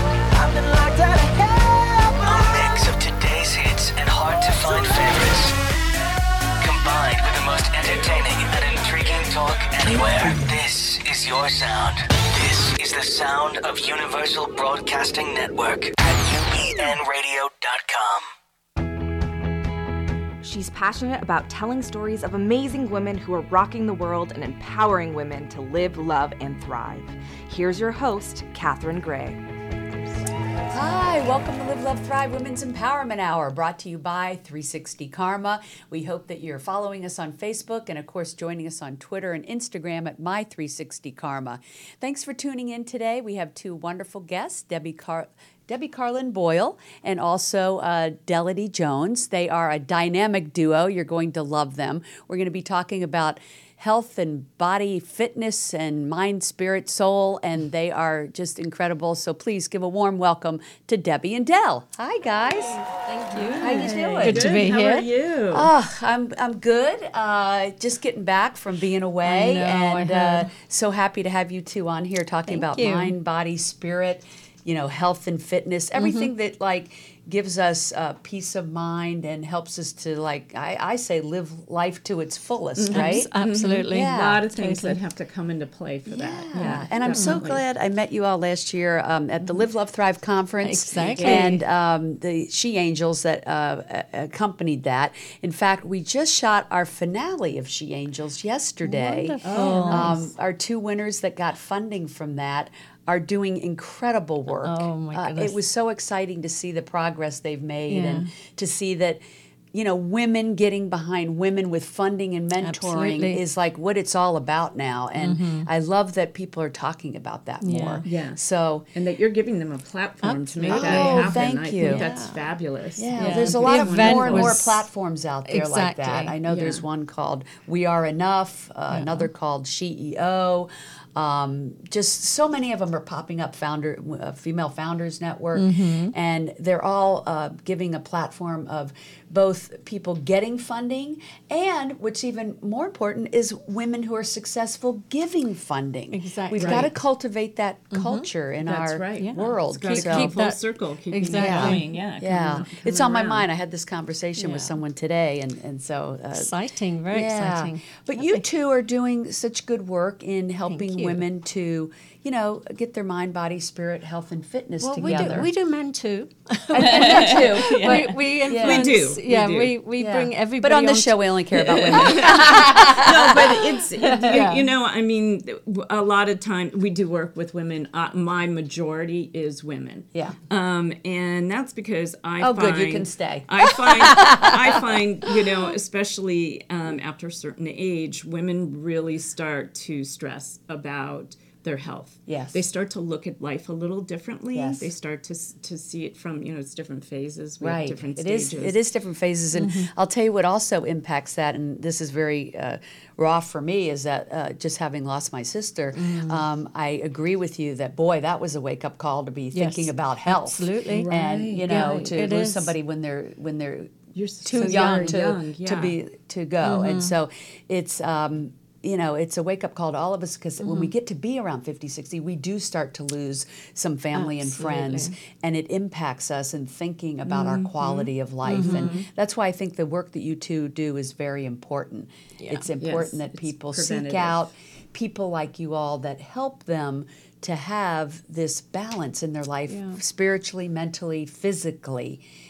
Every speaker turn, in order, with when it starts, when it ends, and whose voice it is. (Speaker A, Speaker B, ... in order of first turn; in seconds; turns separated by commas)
Speaker A: 0.3-2.9, Speaker B: 2.2-5.6, Speaker B: 6.6-18.3, Speaker A: 20.4-29.4, Speaker C: 30.7-62.8, Speaker D: 63.0-65.1, Speaker E: 63.5-65.7, Speaker C: 63.5-64.5, Speaker C: 65.5-83.3, Speaker D: 69.2-70.5, Speaker D: 72.5-73.2, Speaker D: 76.0-76.3, Speaker E: 82.8-87.6, Speaker D: 82.9-85.0, Speaker C: 83.9-84.5, Speaker C: 86.1-109.2, Speaker D: 86.5-87.4, Speaker D: 90.6-91.6, Speaker E: 91.0-91.5, Speaker D: 98.8-100.3, Speaker E: 99.4-100.2, Speaker D: 104.5-105.6, Speaker D: 107.9-108.3, Speaker C: 109.7-118.9, Speaker D: 112.6-113.4, Speaker D: 115.2-115.7, Speaker D: 117.6-118.0, Speaker E: 118.0-118.4, Speaker E: 118.9-124.6, Speaker D: 120.2-122.4, Speaker C: 120.7-122.1, Speaker C: 123.0-150.3, Speaker D: 123.2-124.8, Speaker D: 125.5-126.4, Speaker E: 126.5-126.8, Speaker D: 128.9-129.3, Speaker D: 135.6-136.1, Speaker D: 146.1-146.9, Speaker E: 146.6-146.9, Speaker D: 147.9-148.3, Speaker E: 148.7-153.5, Speaker D: 149.2-151.9, Speaker C: 151.4-156.5, Speaker D: 154.4-154.8, Speaker D: 156.3-158.4, Speaker C: 157.1-165.5, Speaker D: 160.7-161.2, Speaker D: 164.8-171.4, Speaker E: 165.0-165.4, Speaker C: 166.7-169.0, Speaker E: 166.8-169.8, Speaker C: 170.0-174.6, Speaker E: 171.5-198.8, Speaker D: 172.0-172.6, Speaker D: 174.2-174.7, Speaker C: 182.4-184.9, Speaker C: 192.3-192.6, Speaker C: 194.5-194.9, Speaker C: 197.6-242.2, Speaker D: 199.6-199.9, Speaker D: 205.9-206.4, Speaker D: 209.5-211.1, Speaker E: 210.9-212.2, Speaker D: 211.7-212.8, Speaker E: 214.2-216.0, Speaker D: 214.6-215.2, Speaker D: 216.6-217.1, Speaker D: 220.6-220.9, Speaker D: 224.2-225.1, Speaker E: 227.3-229.1, Speaker D: 228.5-229.0, Speaker E: 232.8-234.5, Speaker D: 239.7-240.0